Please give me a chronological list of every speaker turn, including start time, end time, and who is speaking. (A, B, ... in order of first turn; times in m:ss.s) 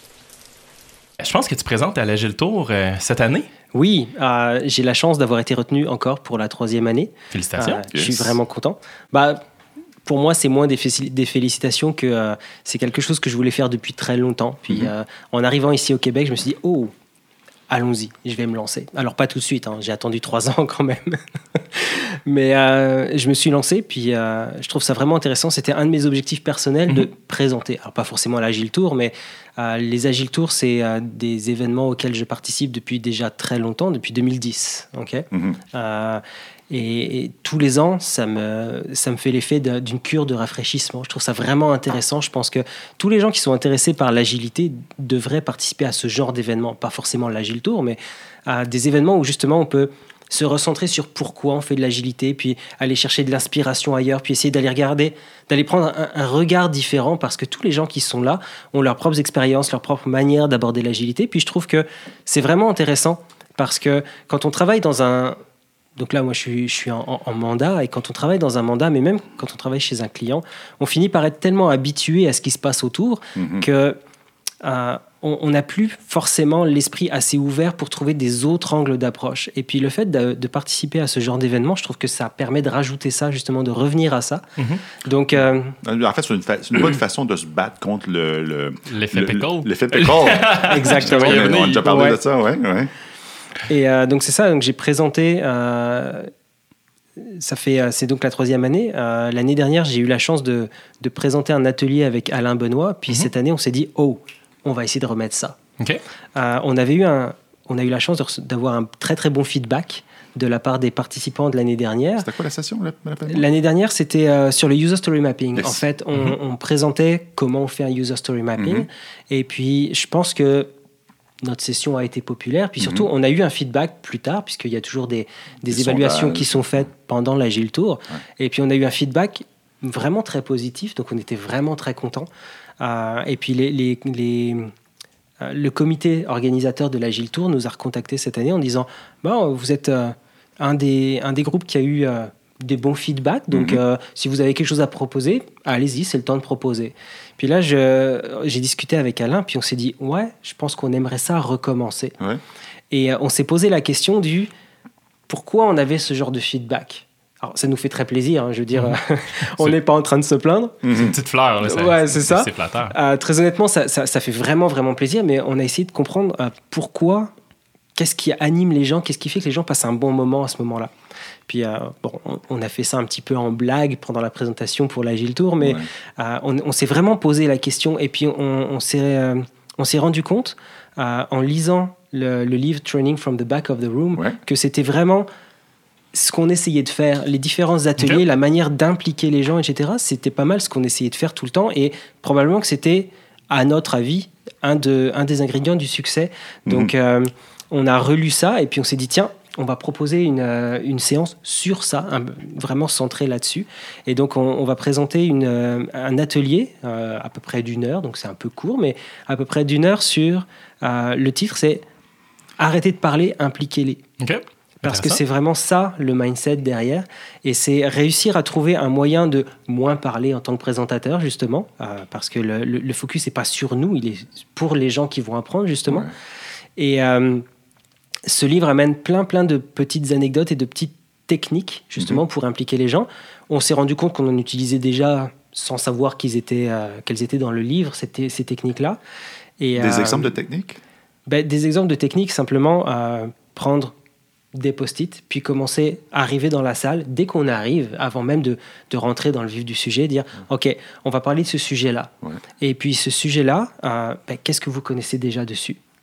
0:01.2-0:03.5 A
0:03.7-0:09.4 B
0:07.3-0:08.3 A
0:07.9-0:08.2 C
0:10.0-0:16.9 B
0:17.7-1:05.4 B
0:35.3-0:35.6 C
1:06.0-1:14.0 B
1:13.4-1:13.6 C
1:14.6-1:25.8 B
1:25.8-1:32.9 C
1:28.9-1:31.9 A
1:30.7-1:32.2 B
1:33.7-1:36.3 B
1:37.2-1:45.6 B
1:46.3-1:52.3 B
1:52.2-1:53.5 C
1:53.3-2:00.7 B
1:58.6-1:58.9 C
2:01.4-2:12.3 B
2:02.8-2:03.0 C
2:05.7-2:06.8 C
2:12.8-2:14.7 B
2:15.4-2:32.2 B
2:23.5-2:23.8 C
2:32.9-2:34.5 B
2:35.3-2:40.9 B
2:40.8-2:41.2 C
2:40.9-2:42.9 A
2:41.6-2:47.3 B
2:47.9-2:50.9 B
2:51.5-3:05.2 B
2:55.6-2:55.9 C
3:06.1-3:31.8 B
3:16.7-3:16.9 C
3:32.6-3:34.0 B
3:34.2-3:35.2 A
3:34.8-3:46.1 B
3:46.8-3:47.4 B
3:48.2-3:59.0 B
3:59.6-4:00.3 B
3:59.8-4:00.8 C
4:01.3-4:03.9 B
4:04.5-4:15.8 B